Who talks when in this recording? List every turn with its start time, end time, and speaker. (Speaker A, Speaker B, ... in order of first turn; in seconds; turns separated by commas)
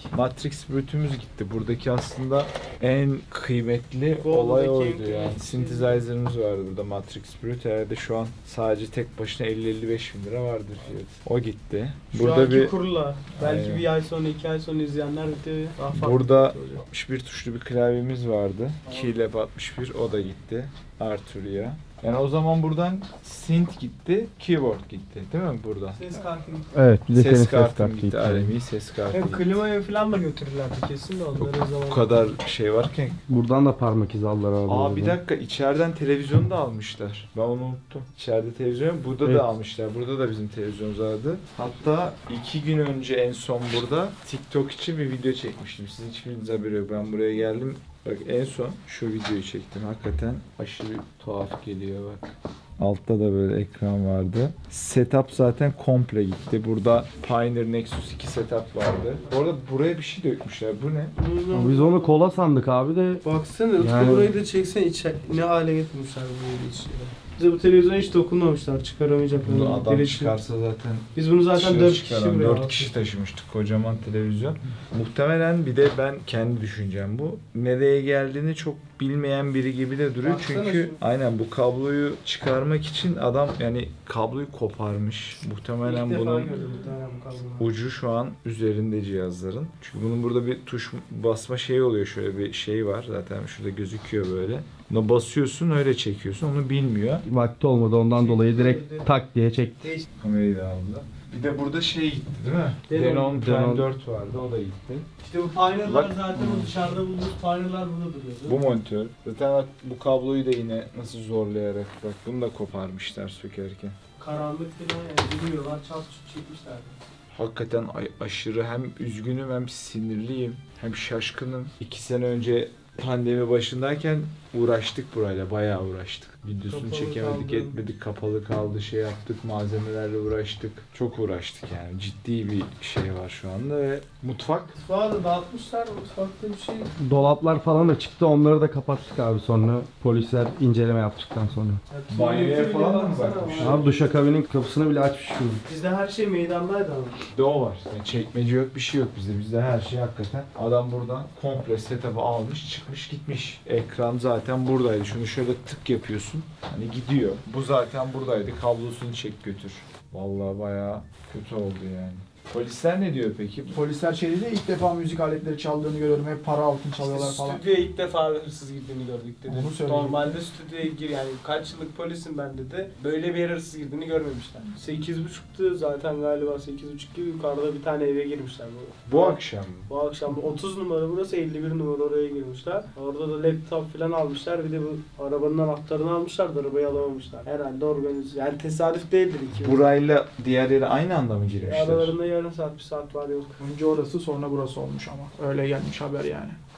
Speaker A: 0.1-12.7, Speaker B: 4.2-6.0, Speaker B: 12.1-16.8, Speaker A: 13.3-13.9, Speaker A: 15.9-26.0, Speaker B: 18.9-19.1, Speaker B: 25.9-26.7, Speaker C: 26.7-28.5, Speaker A: 27.1-29.6, Speaker B: 29.1-32.3, Speaker A: 31.4-33.2, Speaker C: 33.3-35.2, Speaker A: 34.7-61.1, Speaker C: 39.2-39.5, Speaker B: 61.2-62.2, Speaker C: 61.5-63.2, Speaker B: 63.2-70.4, Speaker C: 63.8-64.3, Speaker A: 69.4-86.8, Speaker B: 71.2-72.9, Speaker B: 80.2-81.0, Speaker B: 85.8-87.7, Speaker A: 87.6-97.2, Speaker C: 97.3-100.0, Speaker B: 98.1-99.1, Speaker A: 100.2-104.8, Speaker B: 102.9-103.4, Speaker C: 103.3-103.9, Speaker B: 105.2-108.6, Speaker A: 105.8-107.0, Speaker A: 108.5-114.0, Speaker B: 114.2-117.0, Speaker A: 117.3-134.8, Speaker B: 126.7-127.8, Speaker B: 134.8-136.9, Speaker C: 137.0-141.8, Speaker B: 141.9-144.0, Speaker A: 142.1-143.8, Speaker C: 143.6-145.6, Speaker B: 145.7-147.2, Speaker A: 147.3-163.8, Speaker D: 163.7-167.6, Speaker B: 167.0-189.9, Speaker D: 169.5-170.4, Speaker A: 179.1-179.9, Speaker A: 189.6-192.2, Speaker B: 191.7-193.6, Speaker D: 193.6-196.6